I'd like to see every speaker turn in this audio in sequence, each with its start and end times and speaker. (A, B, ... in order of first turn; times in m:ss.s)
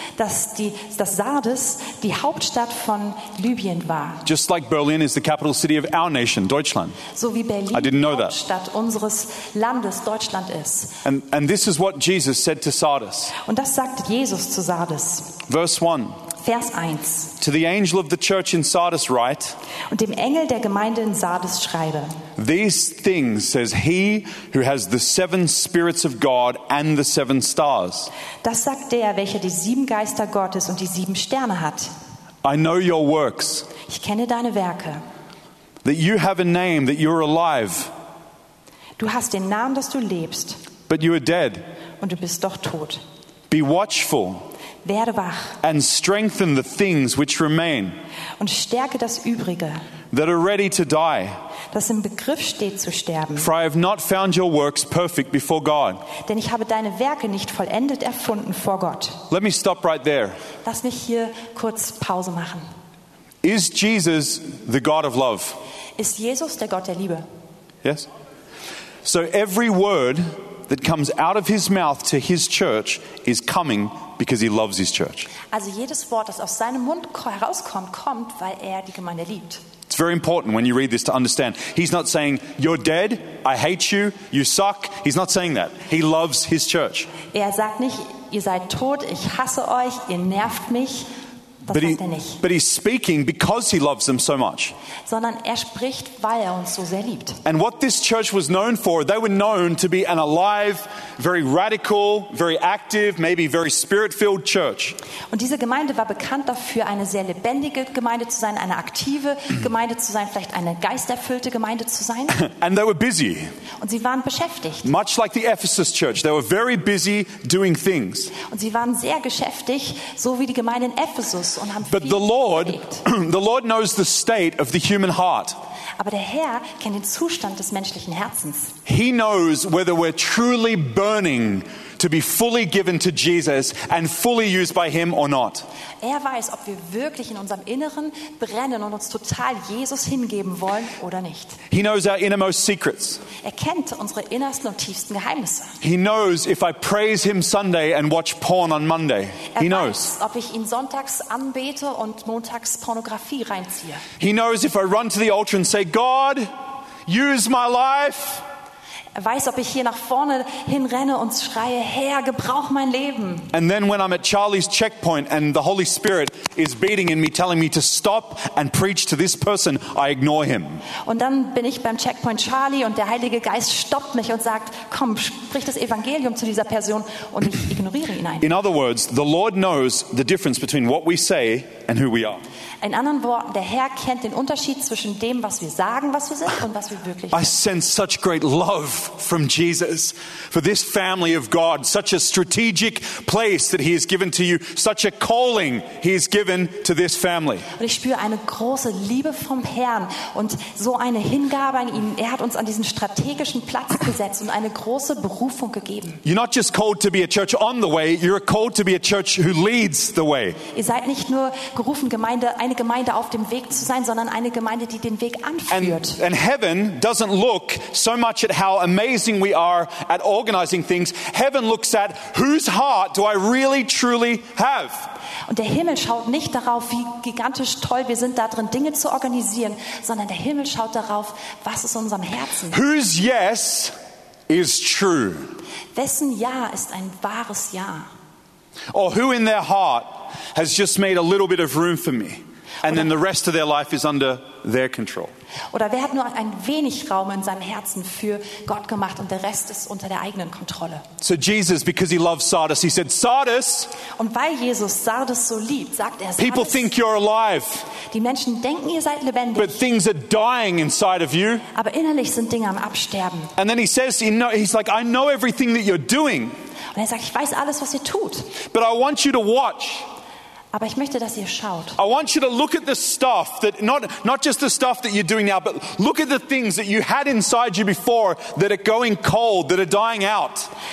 0:00.2-0:04.2 A
0:04.2-0:07.0 B
0:07.1-0:11.0 A
0:07.7-0:08.3 B
0:11.0-0:13.3 B
0:13.4-0:15.4 A
0:15.5-0:16.2 B
0:16.4-0:17.3 A
0:17.4-0:19.6 B
0:19.9-0:22.2 A
0:22.4-0:28.1 B
0:28.4-0:31.9 A
0:32.4-0:33.7 B
0:33.8-0:35.0 A
0:35.8-0:37.9 B
0:39.0-0:40.6 A
0:40.9-0:41.6 B
0:42.0-0:43.0 A
0:43.5-0:44.4 B
0:44.8-0:45.6 A
0:45.6-0:47.9 B
0:48.4-0:49.8 A
0:50.1-0:51.4 B
0:51.7-0:53.5 A
0:53.4-0:56.0 B
0:56.2-0:59.2 A
0:59.3-1:00.4 B
1:00.6-1:02.6 A
1:03.4-1:05.6 B
1:06.0-1:07.2 A
1:09.0-1:15.3 B
1:15.5-1:19.6 A
1:19.9-1:27.1 B
1:27.3-1:31.1 A
1:31.7-1:32.4 A
1:31.7-1:34.7 B
1:35.1-1:37.4 A
1:37.4-1:45.0 B
1:45.3-1:52.4 A
1:52.3-1:53.5 B
1:53.8-1:54.9 A
1:54.8-1:58.3 B
1:58.3-2:03.0 A
2:01.9-2:05.6 B
2:06.0-2:08.7 A
2:08.8-2:15.6 B
2:16.0-2:21.6 A
2:21.7-2:23.2 B
2:23.4-2:25.7 A
2:25.8-2:30.1 B
2:29.5-2:34.0 A
2:34.2-2:36.5 B
2:37.0-2:38.4 B
2:39.1-2:43.5 A
2:43.5-2:50.8 B
2:51.0-2:58.5 A
2:58.4-3:02.4 B
3:02.8-3:07.5 A
3:07.3-3:17.7 B
3:17.8-3:26.2 A
3:26.2-3:30.6 B
3:30.7-3:36.2 A
3:35.7-3:45.1 B
3:45.5-3:52.8 A
3:52.7-3:53.9 B
3:54.5-3:55.5 B
3:55.9-3:58.1 A
3:58.9-4:05.3 B
4:05.7-4:11.0 A
4:11.2-4:13.9 B
4:14.1-4:16.9 A
4:16.4-4:17.8 B
4:18.1-4:19.8 A
4:19.6-4:21.6 B
4:21.7-4:23.5 A
4:23.6-4:26.5 B
4:26.9-4:28.6 A
4:28.6-4:30.0 B
4:30.7-4:32.0 A
4:32.0-4:40.7 B